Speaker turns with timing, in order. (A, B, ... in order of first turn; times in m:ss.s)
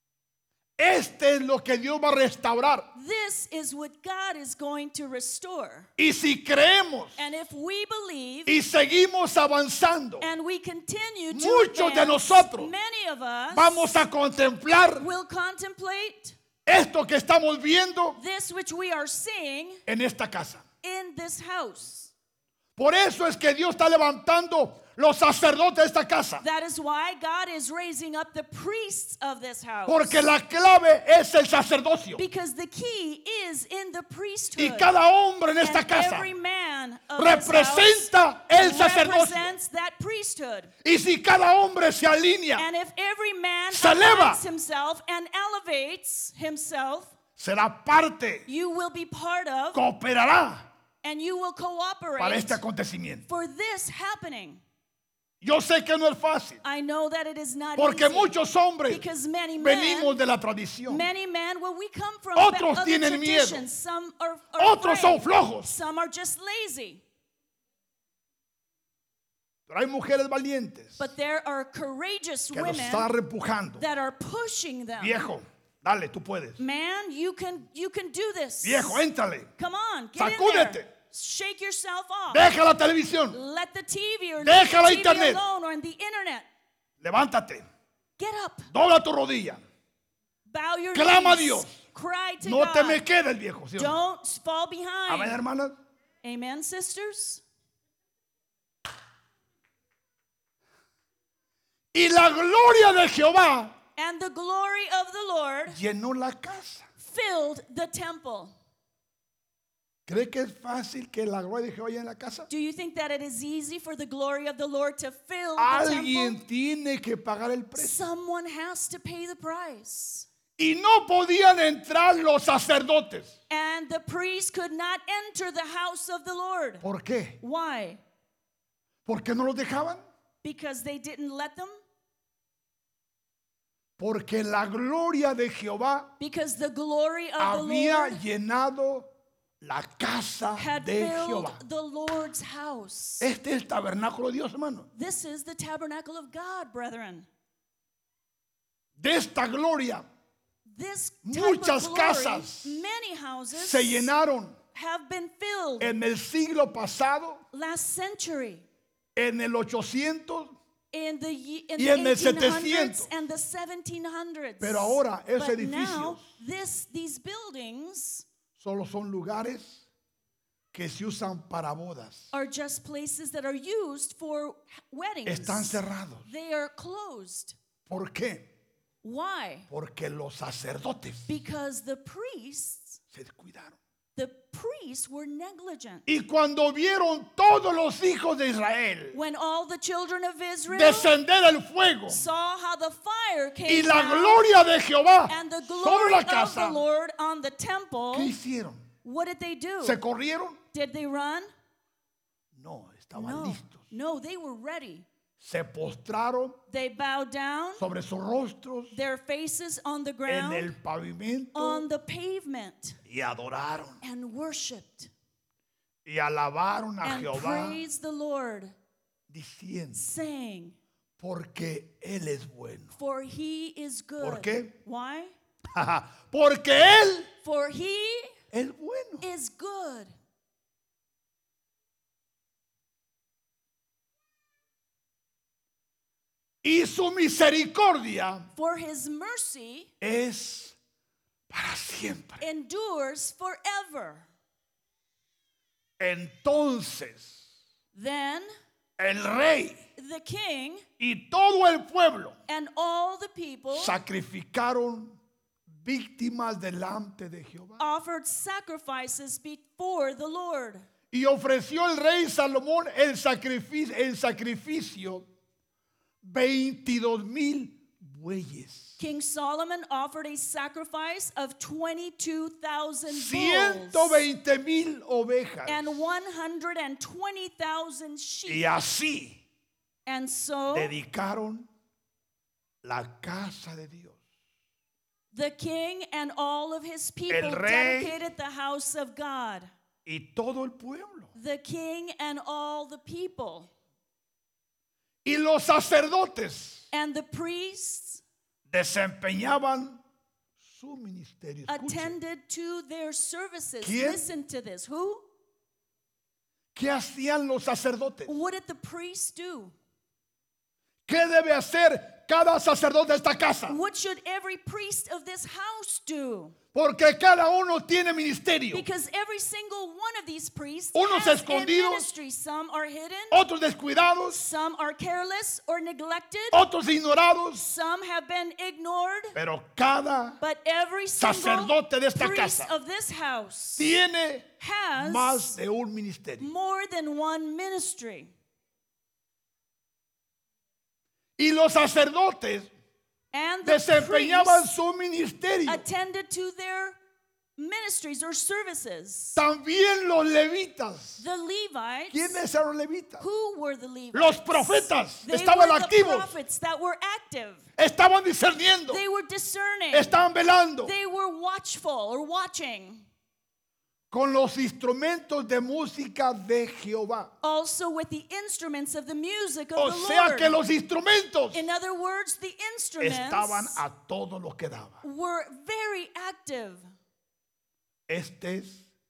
0:00.8-0:02.9 A
0:02.9-0:05.9 B
0:06.0-0:07.3 A
0:07.2-0:08.6 B
0:08.5-0:10.3 A
0:10.2-0:13.9 B
0:11.3-0:12.7 A
0:13.5-0:15.1 A
0:14.9-0:16.4 B
0:16.6-0:18.2 A
0:18.2-0:19.8 B
0:19.9-0:20.6 A
0:20.8-0:22.1 B
0:22.8-0:26.4 A
0:26.4-0:30.2 B
0:29.8-0:32.2 A
0:32.2-0:34.9 B
0:34.6-0:36.3 A
0:35.6-0:40.7 B
0:37.2-0:39.5 A
0:40.8-0:42.6 A
0:42.6-0:47.1 B
0:43.7-0:44.4 A
0:47.4-0:48.4 A
0:48.5-0:49.8 B
0:49.7-0:50.7 A
0:51.0-0:52.6 B
0:52.2-0:53.2 A
0:53.3-0:54.6 B
0:55.4-0:56.6 A
0:56.6-1:00.2 B
0:57.8-0:59.1 A
0:59.6-1:01.1 A
1:00.9-1:07.0 B
1:02.3-1:03.6 A
1:04.6-1:05.7 A
1:09.7-1:11.1 A
1:11.0-1:13.1 B
1:12.5-1:13.8 A
1:13.8-1:15.2 B
1:15.0-1:16.6 A
1:16.6-1:19.0 B
1:18.6-1:19.5 A
1:19.6-1:22.5 B
1:20.2-1:20.9 A
1:22.3-1:23.4 A
1:23.3-1:26.5 B
1:24.4-1:25.4 A
1:27.0-1:27.6 A
1:28.2-1:28.7 B
1:28.7-1:29.6 A
1:30.4-1:33.0 B
1:30.9-1:31.8 A
1:32.4-1:34.0 A
1:33.8-1:35.4 B
1:35.1-1:35.8 A
1:36.2-1:37.4 B
1:41.9-1:43.7 A
1:44.0-1:45.8 B
1:45.7-1:46.9 A
1:47.0-1:48.5 B
1:50.1-1:52.5 A
1:52.5-1:56.4 B
1:55.6-1:58.0 A
1:57.8-2:00.3 B
2:00.6-2:03.4 A
2:03.5-2:06.8 B
2:06.8-2:07.4 A
2:07.4-2:08.0 B
2:09.0-2:10.0 A
2:10.4-2:11.8 B
2:14.0-2:16.1 A
2:16.2-2:18.2 B
2:17.4-2:19.1 A
2:19.6-2:21.6 A
2:20.6-2:23.3 B
2:23.2-2:24.9 A
2:24.9-2:27.3 B
2:29.0-2:30.0 A
2:30.6-2:34.1 B
2:31.2-2:32.8 A
2:33.5-2:34.6 A
2:34.7-2:35.9 B
2:35.8-2:37.4 A
2:37.5-2:38.6 B
2:39.2-2:40.5 A
2:40.9-2:48.2 B
2:41.8-2:43.1 A
2:44.6-2:46.2 A
2:48.6-2:49.9 A
2:50.7-2:52.3 A
2:52.3-2:57.6 B
2:55.2-2:56.3 A
2:57.9-2:58.5 A
2:59.0-2:59.7 B
2:59.7-3:01.3 A
3:01.3-3:03.0 B
3:03.1-3:03.8 A
3:04.2-3:06.0 B
3:06.1-3:09.2 A
3:09.1-3:11.1 B
3:10.7-3:12.3 A
3:12.1-3:14.6 B
3:13.7-3:16.8 A
3:15.3-3:18.3 B
3:18.1-3:18.9 A
3:19.0-3:20.0 B
3:19.8-3:20.6 A
3:20.7-3:21.5 B
3:22.5-3:23.9 A
3:23.1-3:25.0 B
3:25.4-3:26.6 A
3:26.7-3:27.8 B
3:27.8-3:29.0 A
3:28.9-3:30.7 B
3:30.2-3:31.8 A
3:31.5-3:33.0 B
3:33.0-3:34.0 A
3:34.0-3:35.1 B
3:36.0-3:37.8 A
3:37.0-3:38.7 B
3:39.3-3:40.1 A
3:39.9-3:40.8 B
3:41.2-3:42.9 A
3:43.0-3:45.3 B
3:44.2-3:44.7 A
3:45.7-3:47.3 A
3:47.4-3:48.4 B
3:48.5-3:49.3 A
3:49.2-3:50.1 B
3:56.6-3:58.5 A
3:58.5-3:59.9 B
4:00.0-4:00.8 A
4:01.5-4:02.4 A
4:02.4-4:04.3 B
4:06.0-4:07.4 A
4:07.9-4:08.5 B
4:09.0-4:09.8 A
4:10.0-4:10.8 B
4:11.0-4:12.4 A
4:12.5-4:14.0 B
4:13.7-4:15.2 A
4:15.7-4:17.8 A
4:17.8-4:20.8 B
4:21.1-4:25.2 A
4:26.2-4:29.0 A
4:29.0-4:34.3 B
4:33.1-4:36.0 A
4:35.6-4:38.6 B
4:38.5-4:39.4 A
4:40.0-4:40.9 B
4:40.7-4:41.7 A
4:42.8-4:44.2 A
4:45.3-4:49.7 B
4:47.3-4:48.1 A
4:50.0-4:51.3 A
4:51.4-4:53.7 B
4:55.2-4:56.9 A
4:56.9-4:58.2 B
4:58.7-5:00.0 A
5:00.6-5:02.2 A
5:01.7-5:05.2 B
5:03.8-5:04.2 A
5:06.7-5:08.4 A
5:08.2-5:09.7 B
5:11.1-5:13.8 A
5:13.7-5:16.5 B
5:16.7-5:18.8 A
5:18.7-5:23.4 B
5:20.9-5:22.1 A
5:23.3-5:24.4 A
5:24.3-5:26.6 B
5:26.5-5:27.6 A
5:27.6-5:29.4 B
5:29.3-5:30.4 A
5:30.4-5:34.0 B
5:31.2-5:32.7 A
5:33.8-5:36.5 A
5:34.6-5:35.6 B
5:36.4-5:38.3 B
5:41.4-5:42.7 A
5:43.3-5:44.7 B
5:43.6-5:45.8 A
5:45.7-5:47.0 B
5:47.6-5:49.4 B
5:49.4-5:51.2 A
5:51.2-5:52.4 B
5:52.1-5:53.2 A
5:53.2-5:57.6 B
5:54.1-5:56.4 A
5:57.8-5:59.0 A
5:58.9-6:00.2 B
5:59.9-6:00.9 A
6:00.8-6:03.0 B
6:04.1-6:07.3 A
6:07.4-6:10.6 B
6:09.8-6:11.7 A
6:11.5-6:13.8 B
6:13.0-6:15.0 A
6:15.0-6:16.8 B
6:18.1-6:18.9 A